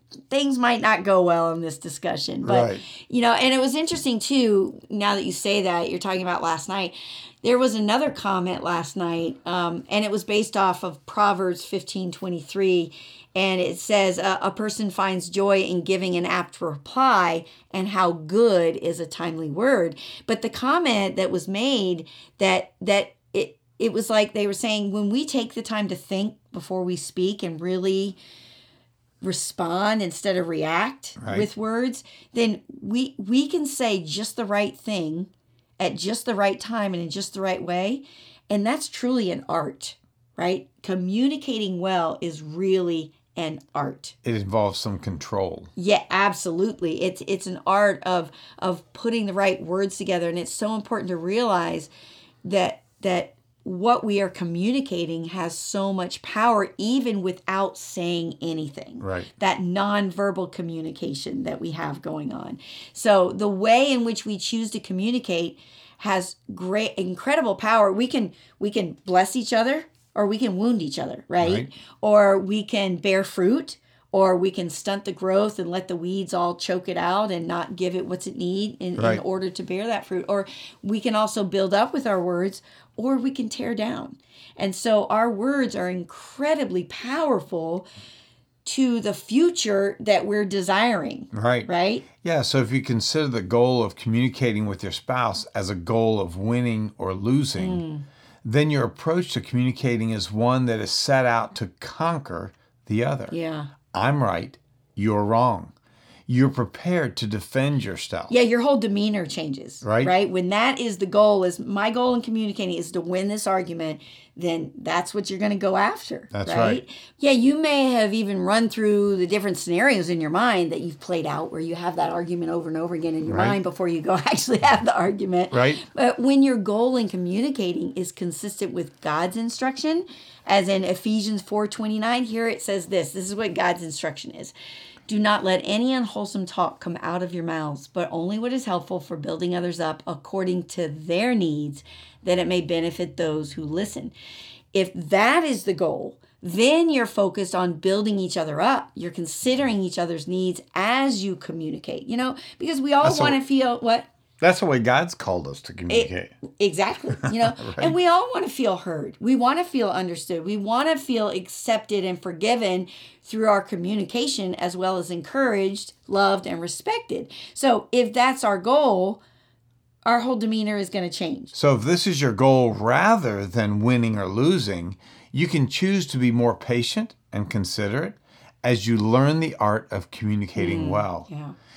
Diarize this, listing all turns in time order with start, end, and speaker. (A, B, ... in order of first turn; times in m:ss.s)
0:00.3-0:28.2 A
0:02.4-0:02.8 B
0:29.2-0:44.1 A
0:31.2-0:31.5 B
0:44.2-0:45.7 B
0:45.8-0:51.9 A
0:52.4-1:27.8 A
0:59.0-0:59.3 B
1:11.4-1:11.7 B
1:19.0-1:19.2 B
1:28.6-1:32.0 A
1:31.3-1:37.8 B
1:37.6-1:38.0 A
1:38.4-1:43.3 B
1:43.3-1:43.7 A
1:43.9-1:45.7 B
1:46.3-1:48.3 B
1:48.3-2:14.5 A
1:49.8-1:50.1 B
1:56.3-1:56.8 B
2:03.3-2:03.6 B
2:05.5-2:05.8 B
2:15.1-2:24.1 A
2:24.7-2:34.1 A
2:33.0-2:33.4 B
2:34.4-2:36.4 B
2:35.9-2:49.2 A
2:37.1-2:38.0 B
2:50.0-2:51.5 A
2:51.5-3:01.3 B
3:00.6-3:01.5 A